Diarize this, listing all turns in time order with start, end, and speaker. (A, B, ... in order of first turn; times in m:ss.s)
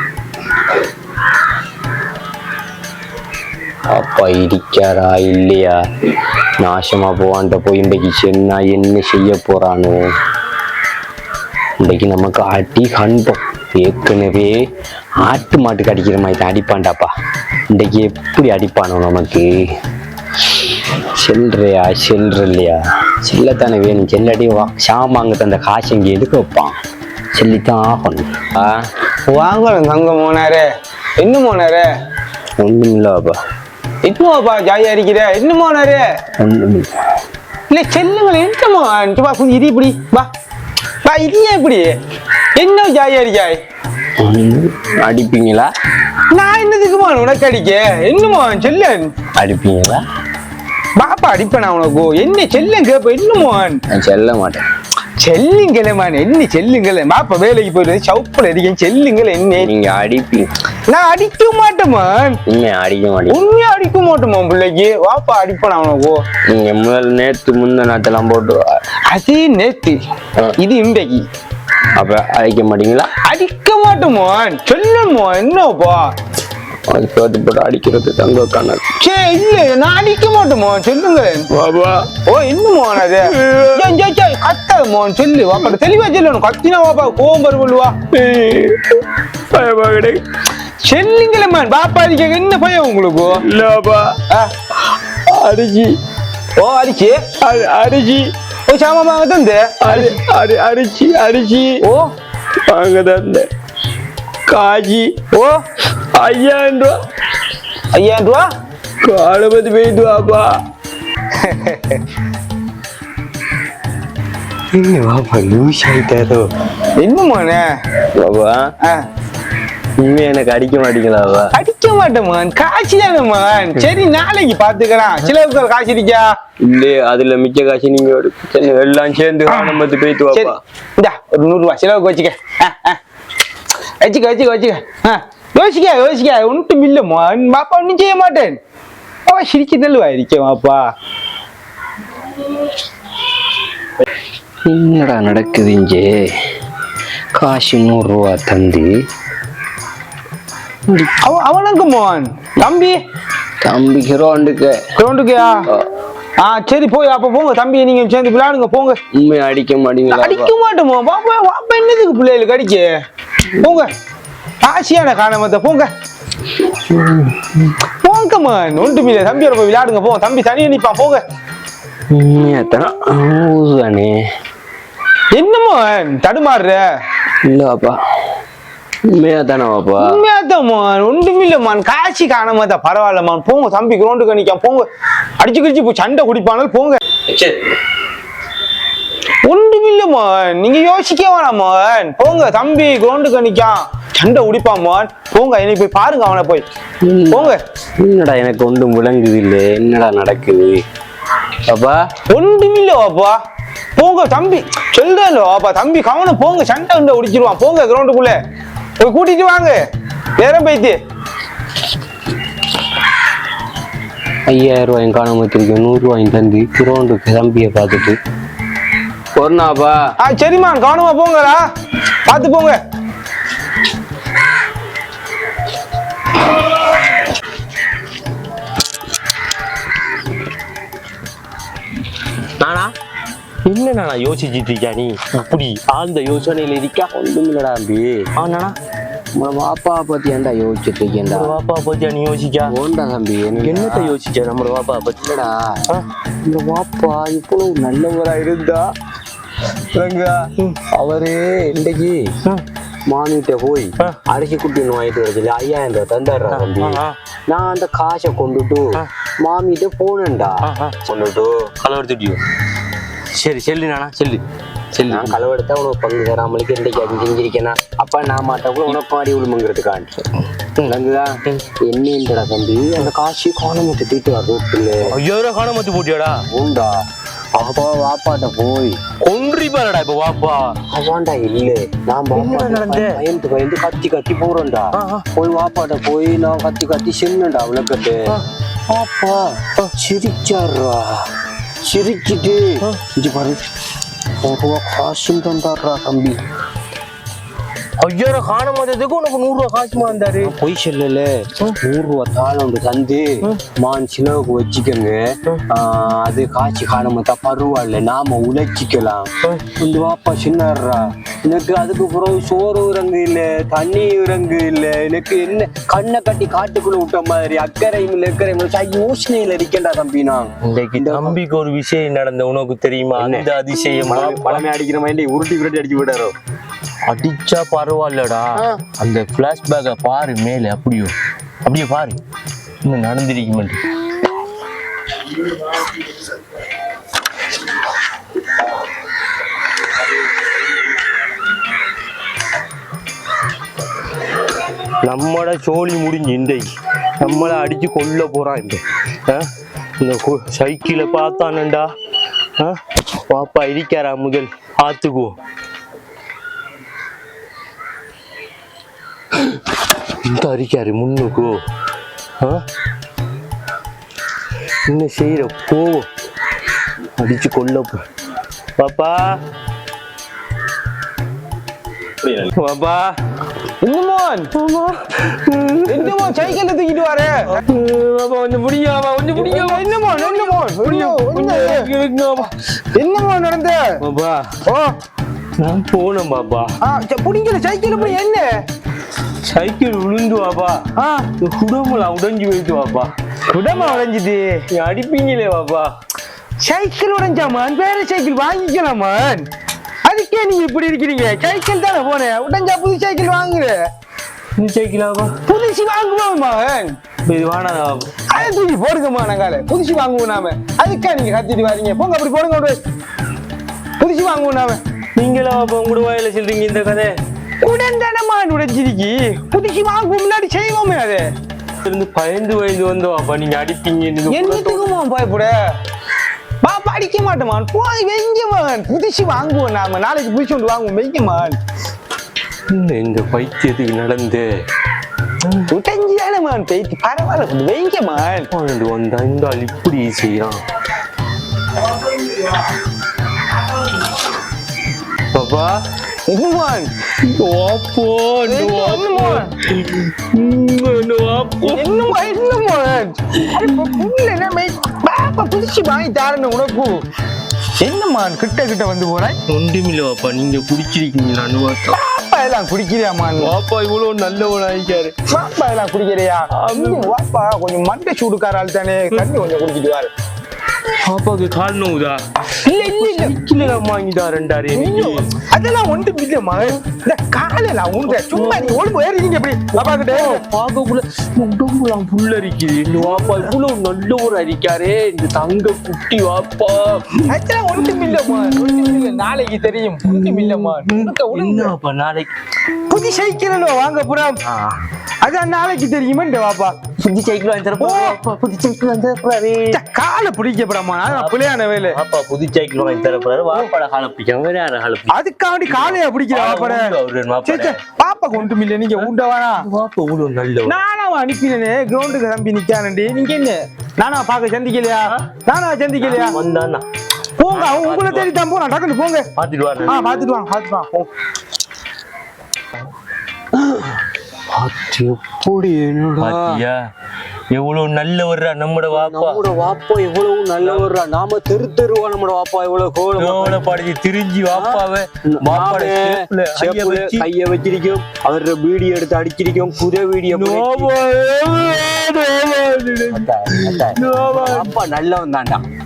0:03.9-0:05.8 A
0:06.6-0:10.1 A
0:11.8-0:14.6 A
0:15.2-0:17.1 A
0:17.7-0:19.5 A
0:20.9-0:26.8 A
0:27.3-0:28.8 A
0:29.3-0:30.6 B
0:31.2-0:31.9 B
0:32.6-0:33.4 A
0:34.0-0:36.0 B
0:36.4-0:36.9 A
0:37.7-0:40.3 B
0:41.0-0:41.9 B
0:42.6-0:43.6 B
0:44.2-0:45.7 A
0:46.3-0:49.1 B
0:49.4-0:50.0 A
0:51.0-0:53.8 B
0:53.9-0:54.6 A
0:55.2-0:59.7 B
0:59.6-1:00.5 A
1:00.9-1:02.4 B
1:02.5-1:03.4 A
1:03.3-1:06.2 B
1:06.5-1:08.7 A
1:09.1-1:10.0 B
1:10.6-1:11.2 B
1:12.0-1:13.1 A
1:13.2-1:16.0 B
1:16.9-1:18.9 A
1:19.0-1:21.4 B
1:21.5-1:22.1 A
1:22.2-1:28.0 B
1:28.1-1:28.9 A
1:29.5-1:30.2 A
1:30.8-1:33.4 B
1:33.4-1:34.2 A
1:35.3-1:35.9 A
1:36.6-1:37.4 B
1:37.4-1:38.3 A
1:38.7-1:40.2 B
1:39.8-1:41.8 A
1:42.7-1:43.5 A
1:44.5-1:45.2 A
1:45.3-1:45.6 B
1:46.1-1:47.0 A
1:47.9-1:48.4 B
1:49.0-1:50.6 A
1:51.4-1:52.0 B
1:54.7-1:56.4 A
1:57.0-1:57.6 B
1:58.1-1:58.7 A
2:00.0-2:01.5 A
2:01.5-2:06.3 B
2:06.6-2:10.6 A
2:10.3-2:13.0 B
2:14.0-2:18.6 B
2:19.3-2:20.8 B
2:24.7-2:26.4 A
2:27.3-2:28.9 A
2:30.9-2:31.1 A
2:31.2-2:33.0 B
2:33.6-2:34.9 A
2:35.0-2:35.6 B
2:36.4-2:39.0 B
2:39.1-2:40.5 A
2:40.1-2:42.9 B
2:43.6-2:43.9 B
2:44.6-2:45.9 B
2:46.7-2:47.6 A
2:48.0-2:51.2 B
2:52.1-2:54.2 A
2:55.3-2:56.8 B
2:57.4-2:58.0 A
2:59.1-3:00.2 A
3:00.0-3:04.8 B
3:05.4-3:07.0 B
3:09.5-3:16.7 B
3:17.0-3:20.8 A
3:17.3-3:17.6 B
3:21.7-3:22.0 A
3:22.3-3:23.4 B
3:24.0-3:28.4 B
3:29.0-3:29.8 B
3:30.4-3:30.9 B
3:34.5-3:38.2 A
3:39.4-3:40.0 A
3:40.2-3:41.6 B
3:42.3-3:42.8 B
3:52.6-3:52.9 C
3:53.6-3:57.1 C
3:57.1-3:58.3 A
3:58.4-3:58.8 C
3:59.4-4:01.6 A
4:01.2-4:02.7 C
4:02.6-4:04.2 A
4:03.6-4:05.2 C
4:05.2-4:05.8 A
4:06.4-4:08.8 A
4:09.9-4:12.3 A
4:13.1-4:21.7 A
4:16.5-4:17.2 C
4:20.6-4:21.0 C
4:21.8-4:22.4 C
4:23.3-4:25.4 C
4:25.1-4:30.2 A
4:30.8-4:31.6 C
4:30.8-4:35.2 A
4:35.0-4:36.4 C
4:36.5-4:37.0 A
4:37.5-4:39.0 A
4:39.2-4:40.8 C
4:40.8-4:48.3 A
4:42.3-4:43.2 C
4:44.9-4:45.2 C
4:48.9-4:51.2 A
4:51.8-4:53.6 A
4:54.4-4:56.4 A
4:58.0-5:00.5 C
5:00.0-5:21.4 A
5:20.6-5:24.6 C
5:23.1-5:23.5 A
5:24.0-5:26.3 A
5:27.1-5:32.2 C
5:28.6-5:28.8 A
5:32.8-5:33.8 C
5:45.0-5:49.5 C
5:50.0-5:51.9 C
5:52.6-5:55.3 C
6:00.2-6:01.6 C
6:04.8-6:06.1 C
6:07.2-6:08.0 C
6:08.8-6:09.4 C
6:12.2-6:13.2 C
6:13.8-6:14.5 B
6:14.5-6:16.6 C
6:15.8-6:17.6 B
6:17.6-6:22.5 C
6:19.3-6:21.9 B
6:22.9-6:23.9 B
6:24.0-6:24.6 C
6:25.6-6:26.7 C
6:26.8-6:28.6 B
6:29.4-6:30.8 C
6:31.0-6:31.3 B
6:31.4-6:33.1 C
6:33.5-6:34.6 B
6:33.7-6:34.0 C
6:34.7-6:35.9 C
6:36.6-6:39.4 B
6:40.0-6:43.7 B
6:44.6-6:45.3 C
6:45.5-6:46.9 B
6:47.2-6:48.5 C
6:48.3-6:52.8 B
6:54.0-6:54.8 B
6:55.2-6:57.1 C
6:57.6-7:01.2 B
7:01.8-7:04.9 C
7:04.3-7:05.5 B
7:06.6-7:11.6 B
7:12.7-7:14.5 C
7:15.4-7:15.7 C
7:15.7-7:18.5 B
7:18.5-7:20.6 C
7:25.3-7:25.8 C
7:26.3-7:26.9 B
7:27.2-7:32.1 C
7:28.4-7:29.5 B
7:31.6-7:37.0 B
7:33.4-7:34.0 C
7:37.8-7:39.4 B
7:39.5-7:42.0 C
7:41.9-7:43.6 B
7:43.4-7:45.1 C
7:45.3-7:50.1 B
7:46.5-7:47.1 C
7:51.0-7:55.3 C
7:52.6-7:53.8 B
7:54.7-8:00.4 B
7:58.1-7:58.8 C
7:59.7-8:09.2 C
8:03.1-8:03.3 B
8:07.3-8:11.8 B
8:10.0-8:12.3 C
8:12.9-8:14.4 B
8:14.4-8:14.8 C
8:15.2-8:16.8 B
8:17.0-8:19.8 C
8:17.8-8:18.2 B
8:19.7-8:22.0 B
8:21.1-8:27.8 C
8:25.1-8:26.9 B
8:27.4-8:29.6 B
8:28.4-8:30.8 C
8:30.6-8:36.4 B
8:36.0-8:36.8 C
8:37.4-8:39.3 B
8:37.5-8:38.3 C
8:39.4-8:40.3 C
8:39.8-8:41.1 B
8:44.5-8:46.6 A
8:46.2-8:46.8 C
8:47.5-8:49.4 C
8:48.9-8:53.6 A
8:50.6-8:50.9 C
8:53.2-8:57.3 C
8:54.5-9:00.9 A
9:00.3-9:04.8 C
9:03.1-9:05.6 A